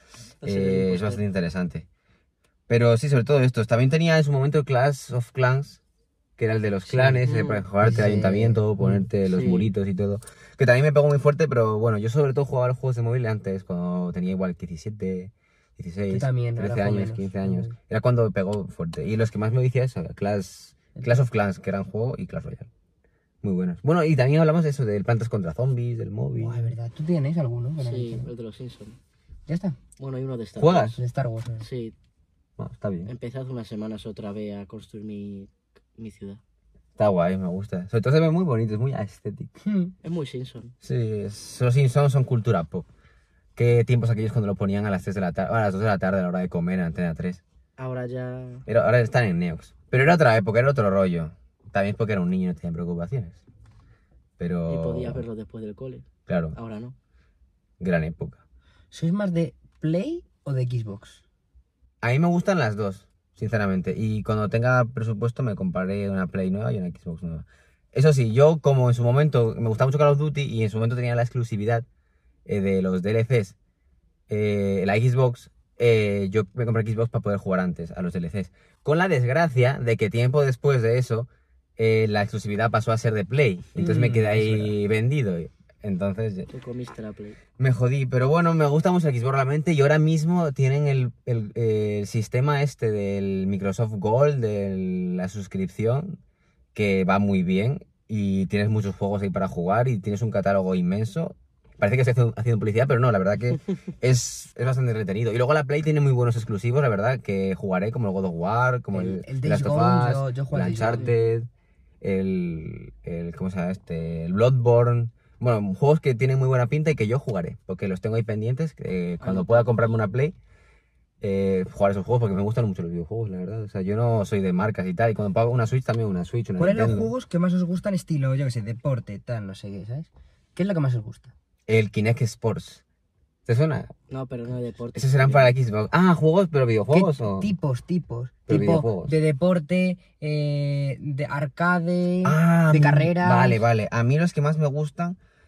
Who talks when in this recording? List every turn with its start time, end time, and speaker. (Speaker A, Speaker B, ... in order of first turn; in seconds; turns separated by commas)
Speaker A: 0.4-1.2, Speaker B: 0.4-1.9, Speaker B: 2.7-5.8, Speaker B: 6.4-22.7, Speaker A: 6.9-7.6, Speaker C: 7.8-9.1, Speaker A: 9.2-9.7, Speaker C: 16.1-17.7, Speaker C: 20.9-21.2, Speaker B: 23.4-26.7, Speaker C: 26.3-28.3, Speaker A: 27.8-29.0, Speaker C: 29.5-29.8, Speaker A: 30.0-31.0, Speaker B: 30.6-31.0, Speaker C: 30.9-31.6, Speaker A: 31.6-31.9, Speaker B: 32.6-33.1, Speaker A: 33.0-36.4, Speaker B: 37.0-39.5, Speaker C: 39.6-39.9, Speaker A: 40.0-40.7, Speaker B: 40.8-42.9, Speaker B: 43.5-47.4, Speaker A: 47.8-48.6, Speaker B: 48.7-53.4, Speaker B: 54.4-55.2, Speaker A: 54.7-56.9, Speaker B: 56.3-56.5, Speaker B: 57.8-58.4, Speaker C: 58.9-61.2, Speaker B: 62.0-71.8, Speaker B: 72.5-73.5, Speaker B: 74.3-86.5, Speaker C: 83.8-84.7, Speaker A: 86.5-87.4, Speaker B: 87.6-96.2, Speaker B: 96.7-111.5, Speaker C: 108.9-111.1, Speaker A: 110.8-111.2, Speaker B: 112.0-120.3, Speaker A: 119.2-120.0, Speaker B: 121.2-127.1, Speaker C: 126.6-131.3, Speaker B: 131.7-132.8, Speaker B: 133.4-133.9, Speaker A: 134.1-135.5, Speaker B: 134.9-137.5, Speaker C: 136.9-143.6, Speaker B: 138.5-139.1, Speaker B: 142.2-145.2